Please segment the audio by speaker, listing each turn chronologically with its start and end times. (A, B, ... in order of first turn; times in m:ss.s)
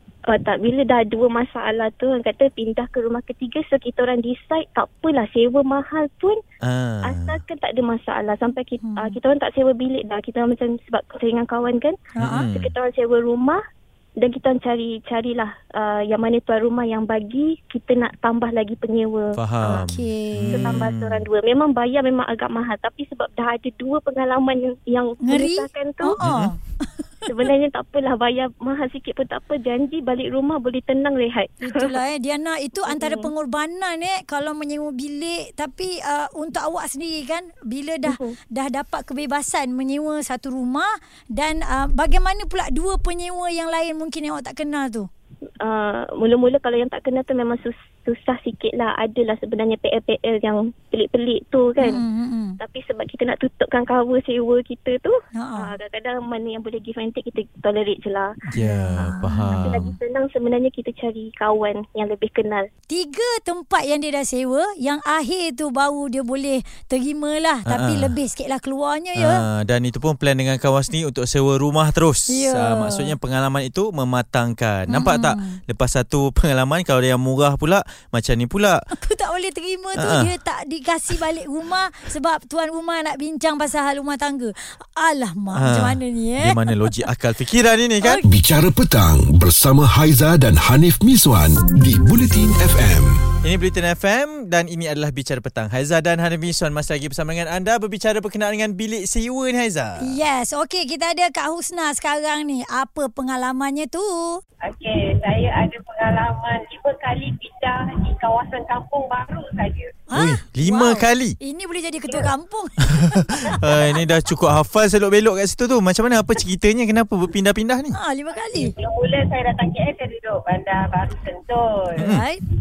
0:00.3-0:06.4 A
0:06.6-0:07.4 B
0:07.1-0:12.0 A
0:08.8-0:09.2 C
0:12.1-0:12.5 C
0:12.2-0:12.7 B
0:12.5-0:13.6 A
0:14.2-0:19.9 A
0:19.3-0:21.2 B
0:19.8-0:20.7 C
0:20.5-0:26.2 A
0:25.2-0:27.0 C
0:26.2-0:26.5 B
0:27.3-0:31.9 A
0:31.6-0:45.1 C
0:32.9-0:33.3 A
0:38.1-0:38.3 A
0:45.6-0:52.0 A
0:51.8-0:52.6 C
0:52.6-0:58.3 A
0:55.4-0:55.7 C
0:58.5-0:59.9 B
0:58.5-0:59.9 C
0:59.6-1:02.7 A
1:02.9-1:09.4 C
1:07.6-1:08.1 B
1:09.2-1:18.8 B
1:12.3-1:13.1 C
1:14.9-1:15.6 C
1:19.0-1:27.0 C
1:20.0-1:20.3 B
1:25.6-1:28.2 B
1:28.2-1:33.1 D
1:33.4-1:40.2 B
1:40.0-1:44.4 C
1:44.6-1:50.0 E
1:50.1-1:53.8 C
1:50.1-1:51.4 B
1:53.0-1:58.0 B
1:57.9-1:58.7 C
1:58.5-2:02.2 E
2:02.0-2:02.4 C
2:02.0-2:02.2 B